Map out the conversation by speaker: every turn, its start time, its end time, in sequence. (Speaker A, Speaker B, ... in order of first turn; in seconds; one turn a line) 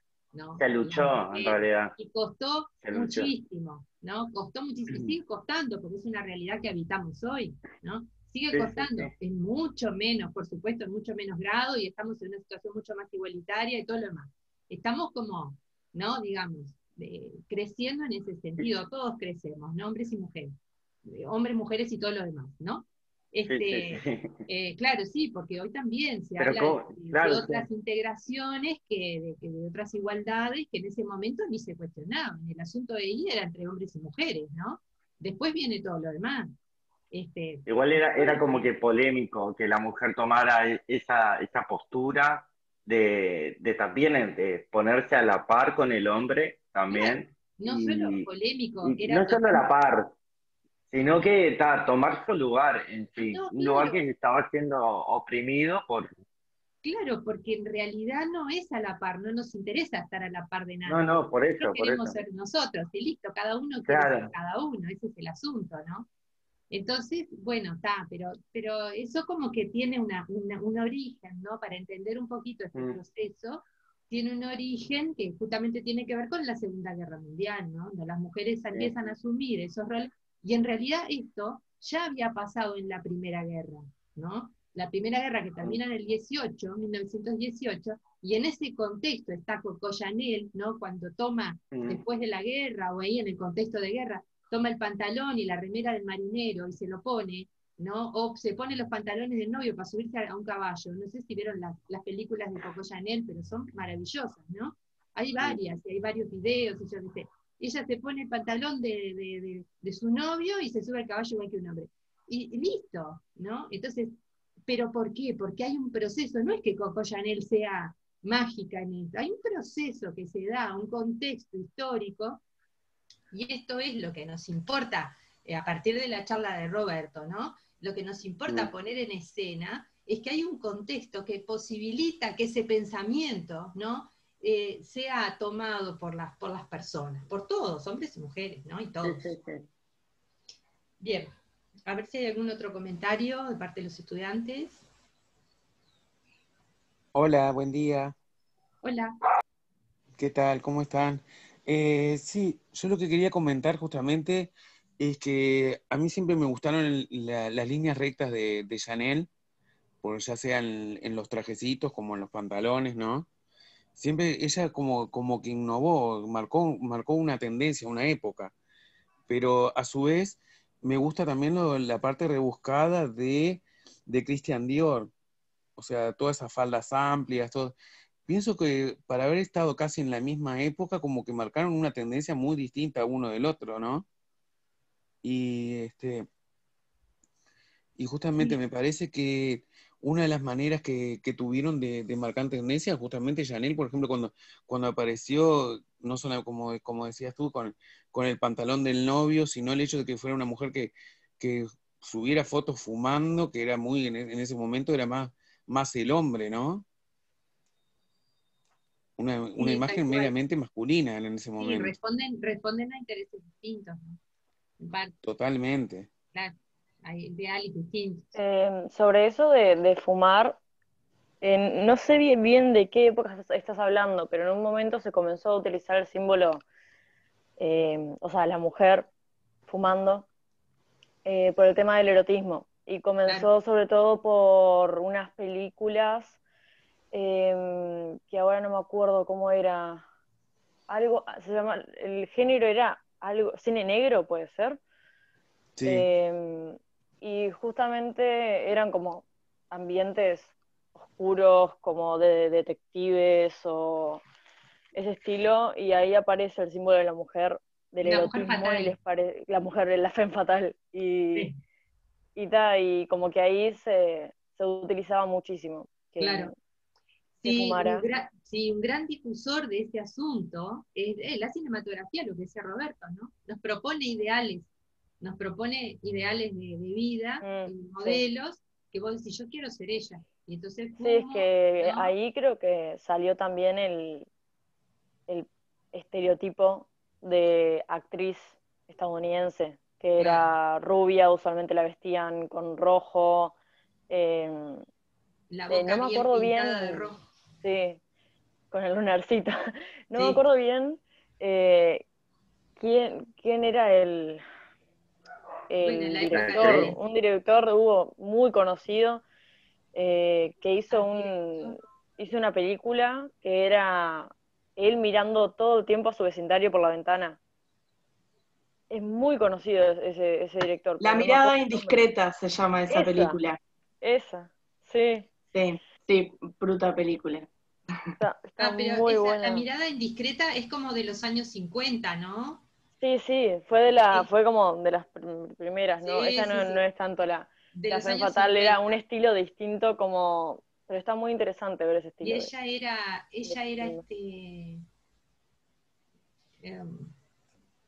Speaker A: 0.3-20.5
Speaker B: 0.6-1.9
Speaker B: 2.8-3.3
Speaker B: 4.9-5.1
Speaker B: 8.5-9.1
Speaker A: 21.1-36.5
Speaker B: 23.5-24.4
Speaker B: 26.4-27.6
Speaker A: 37.1-38.4
Speaker B: 37.6-48.3
Speaker A: 46.9-49.7
Speaker B: 48.8-50.1
Speaker B: 50.9-56.1
Speaker A: 53.3-54.0
Speaker A: 56.8-66.1
Speaker B: 60.8-62.1
Speaker B: 63.9-64.3
Speaker A: 66.7-114.2
Speaker B: 78.7-79.0
Speaker B: 91.7-92.0
Speaker A: 114.7-122.4
Speaker A: 123.3-139.3
Speaker B: 139.0-139.7
Speaker A: 141.0-141.3
Speaker A: 141.9-144.8
Speaker C: 147.1-148.1
Speaker A: 148.8-149.1
Speaker C: 150.2-159.3
Speaker C: 160.0-163.3
Speaker C: 163.9-168.5
Speaker C: 169.3-175.1
Speaker C: 175.8-177.7
Speaker C: 178.3-184.0
Speaker C: 185.2-186.3
Speaker C: 188.0-206.8
Speaker C: 209.2-211.9
Speaker A: 209.6-210.3
Speaker A: 211.6-214.2
Speaker A: 214.8-215.1
Speaker C: 215.2-216.1
Speaker A: 216.3-218.3
Speaker D: 218.3-220.6
Speaker D: 221.4-226.6
Speaker D: 227.6-229.1
Speaker D: 229.7-230.2
Speaker D: 231.2-236.4
Speaker D: 237.1-240.0
Speaker D: 240.9-244.8
Speaker C: 245.8-246.1
Speaker D: 245.8-254.2
Speaker D: 254.9-261.5
Speaker A: 258.0-258.9
Speaker D: 262.4-266.5
Speaker A: 266.2-266.5
Speaker D: 267.4-268.1
Speaker A: 267.4-274.7
Speaker A: 275.2-282.1
Speaker D: 277.4-278.2
Speaker D: 281.0-284.3
Speaker D: 285.3-293.5
Speaker A: 290.1-290.5
Speaker D: 294.1-294.8
Speaker A: 295.5-297.2
Speaker D: 295.7-298.0
Speaker D: 298.7-302.0
Speaker A: 300.1-300.4
Speaker D: 302.8-304.4
Speaker D: 305.7-309.2
Speaker A: 305.8-306.9
Speaker B: 306.3-306.9
Speaker D: 309.9-317.4
Speaker A: 310.9-311.3
Speaker D: 318.9-322.0
Speaker E: 321.0-323.6
Speaker D: 322.9-323.4
Speaker D: 324.0-325.3
Speaker E: 325.5-327.5
Speaker D: 328.2-329.6
Speaker A: 328.6-332.6
Speaker D: 333.0-342.5
Speaker A: 336.0-336.9
Speaker A: 337.7-339.0
Speaker A: 342.2-344.8
Speaker D: 343.4-344.0
Speaker A: 346.6-347.1